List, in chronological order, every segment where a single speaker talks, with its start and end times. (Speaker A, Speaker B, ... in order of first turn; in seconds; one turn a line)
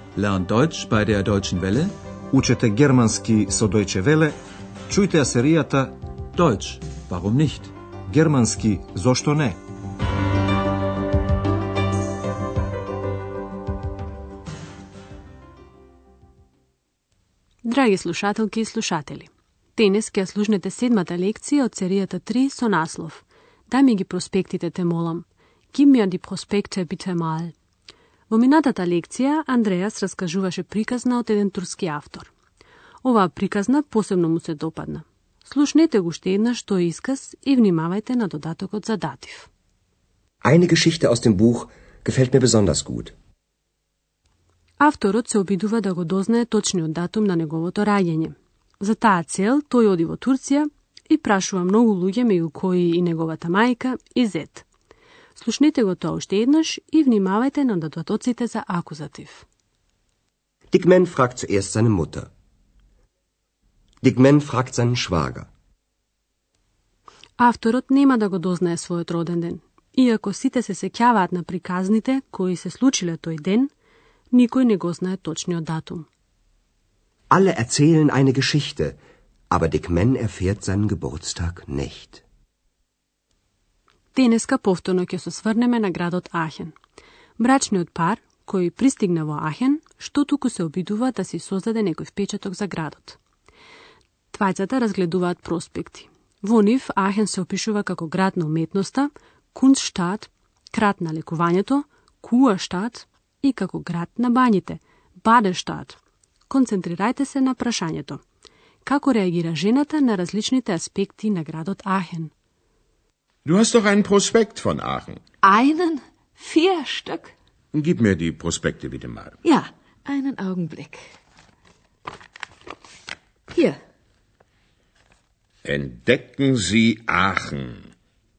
Speaker A: 0.1-1.9
Speaker B: 2.3-4.4
Speaker B: 4.9-5.9
Speaker A: 6.3-7.7
Speaker B: 8.1-9.6
Speaker C: 17.6-27.5
Speaker C: 28.3-32.3
Speaker C: 33.0-39.5
Speaker D: 40.4-43.1
Speaker C: 44.8-54.6
Speaker C: 55.3-59.5
Speaker D: 60.7-62.3
Speaker D: 64.0-65.5
Speaker C: 67.4-73.7
Speaker C: 74.3-76.1
Speaker D: 77.3-79.0
Speaker D: 79.5-82.2
Speaker C: 84.1-86.7
Speaker C: 87.4-93.2
Speaker C: 94.3-106.0
Speaker C: 106.5-108.2
Speaker C: 108.8-112.3
Speaker E: 113.5-115.2
Speaker F: 115.4-117.3
Speaker E: 117.7-119.4
Speaker F: 119.4-121.1
Speaker F: 123.5-123.8
Speaker E: 125.6-127.9